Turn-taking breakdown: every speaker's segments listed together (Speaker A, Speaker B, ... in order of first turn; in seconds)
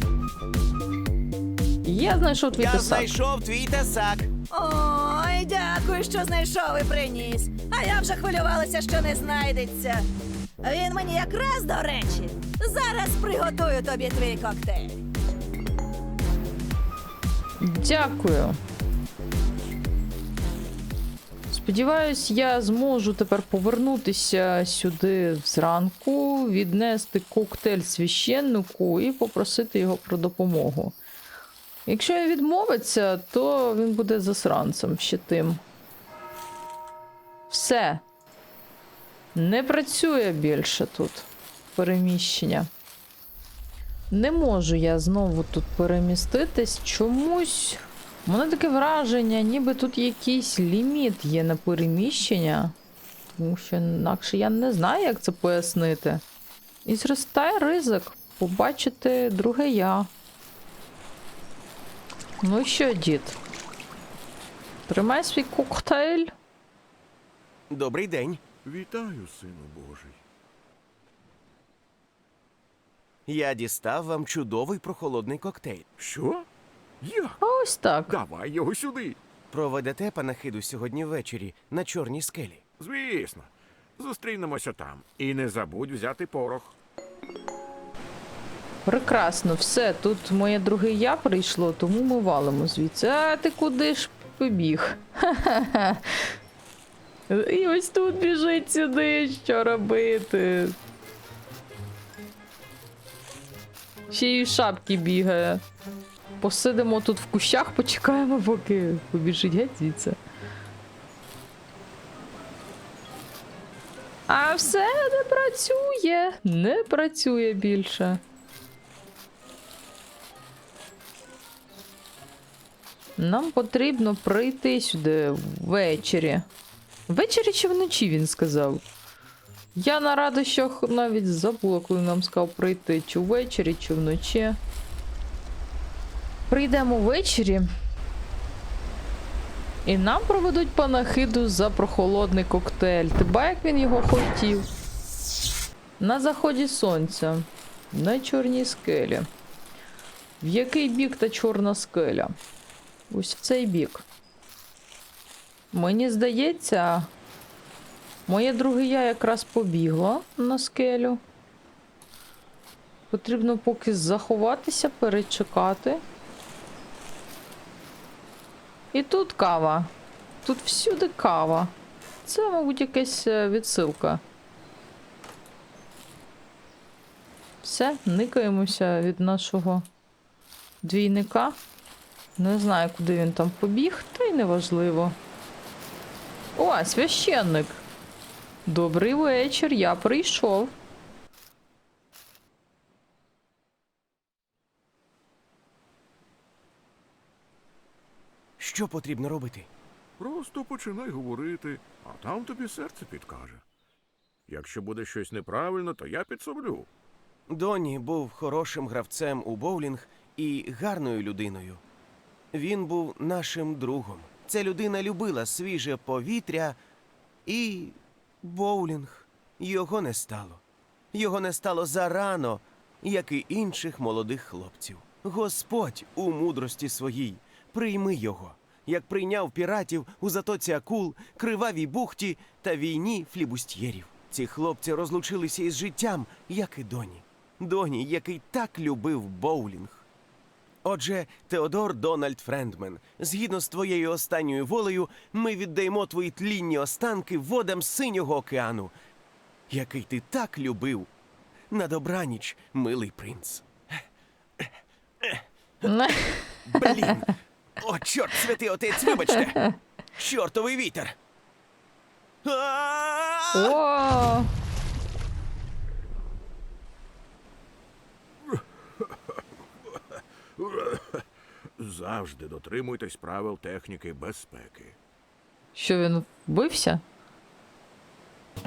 Speaker A: 1.8-3.1, 17.6-18.6, 21.5-31.0, 31.9-35.6, 37.5-38.0, 39.4-42.7, 44.1-52.8, 53.4-56.2, 56.9-60.1, 62.4-63.4, 64.9-66.3, 77.4-78.1, 88.9-96.2, 97.3-100.8, 104.1-105.6, 106.4-110.2, 114.3-118.2, 123.2-126.5, 127.1-128.8, 129.8-134.6, 136.5-137.7, 139.8-144.7, 146.0-149.3, 150.4-152.3, 153.1-154.1, 155.7-157.1, 158.3-161.2, 163.1-166.0, 168.9-169.9, 170.4-174.2, 177.6-179.9, 180.8-181.6, 182.4-185.2, 186.6-187.8, 188.7-190.8, 255.8-257.2, 263.5-264.5, 275.8-277.0
Speaker B: 2.6-4.3, 67.7-68.4, 73.3-75.9, 79.5-82.6, 198.6-199.7, 207.5-211.8, 212.5-216.8, 217.5-220.6, 221.1-240.1, 240.8-248.9, 249.7-251.1, 251.7-254.0, 254.6-255.9, 256.6-259.6, 260.2-261.2, 262.4-263.8
Speaker C: 4.5-10.1, 10.6-15.0
Speaker D: 68.6-70.2, 76.0-76.5, 77.0-77.4, 78.1-79.2, 82.8-86.8, 200.2-203.6, 204.5-206.9, 270.1-271.2, 271.8-275.0